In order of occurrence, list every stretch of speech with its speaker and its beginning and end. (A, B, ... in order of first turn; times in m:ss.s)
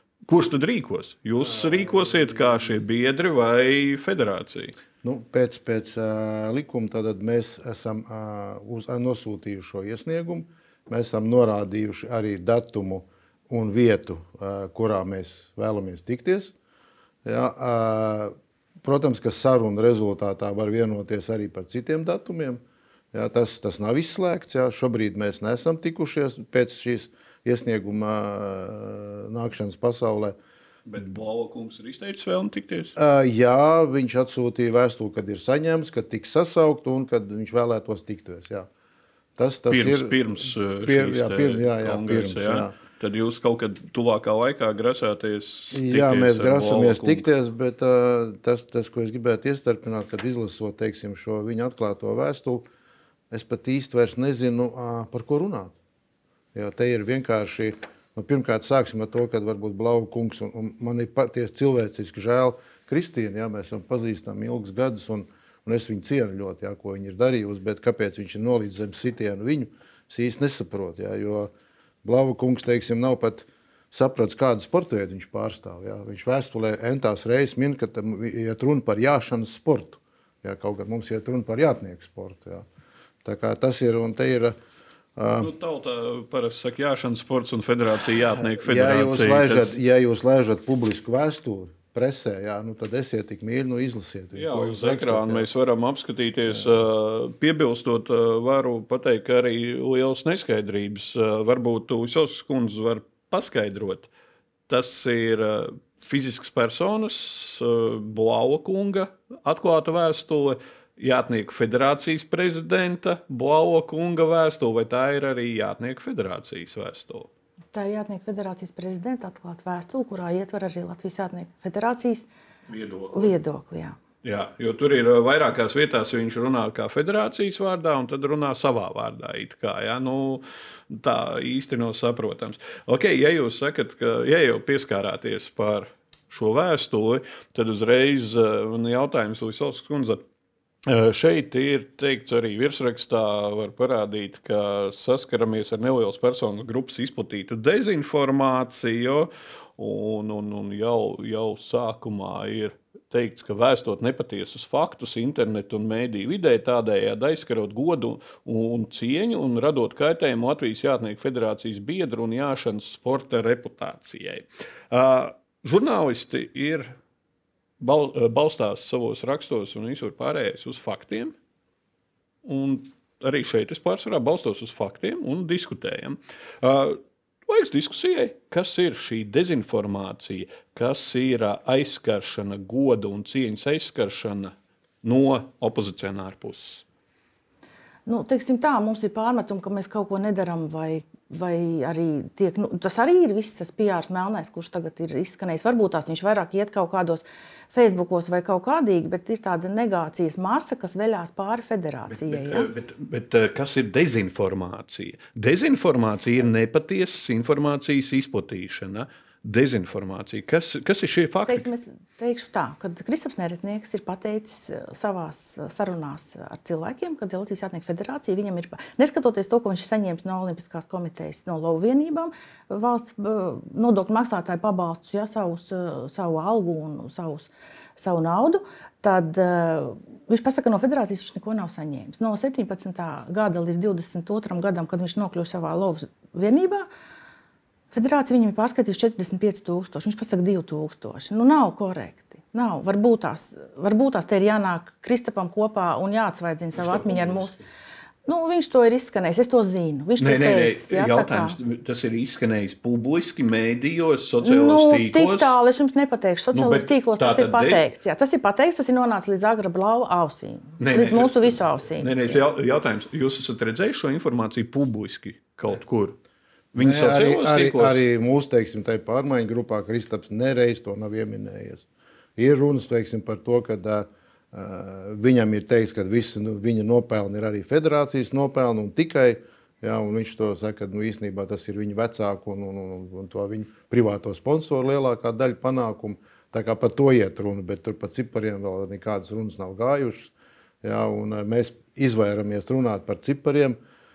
0:00.2-0:04.8 A
0:01.5-0:02.7 B
0:05.0-0:16.5 B
0:17.2-0:22.6 B
0:23.1-0:30.4 B
0:30.9-0:33.0 A
0:33.0-0:38.7 B
0:39.4-0:42.7 B
0:39.7-0:47.2 A
0:45.7-0:52.6 B
0:53.3-0:55.7 B
0:56.5-1:11.5 B
1:12.0-1:22.6 B
1:23.2-1:24.5 B
1:25.2-1:25.5 B
1:25.4-1:29.7 A
1:28.6-1:35.5 B
1:34.3-1:44.1 A
1:44.7-1:57.3 A
1:57.7-2:02.2 C
2:02.7-2:03.3 A
2:03.1-2:04.0 C
2:04.2-2:20.2 A
2:20.8-2:46.9 A
2:47.8-2:51.3 A
2:52.4-3:04.5 A
3:05.0-3:06.8 A
3:08.0-3:22.7 C
3:22.1-3:31.7 A
3:31.5-3:56.8 C
3:57.9-4:07.5 C
4:06.7-4:07.6 A
4:08.2-4:11.6 C
4:10.2-4:15.6 A
4:14.4-4:22.4 C
4:16.5-4:17.8 A
4:20.8-4:26.2 A
4:26.7-4:28.0 A
4:26.8-4:53.8 B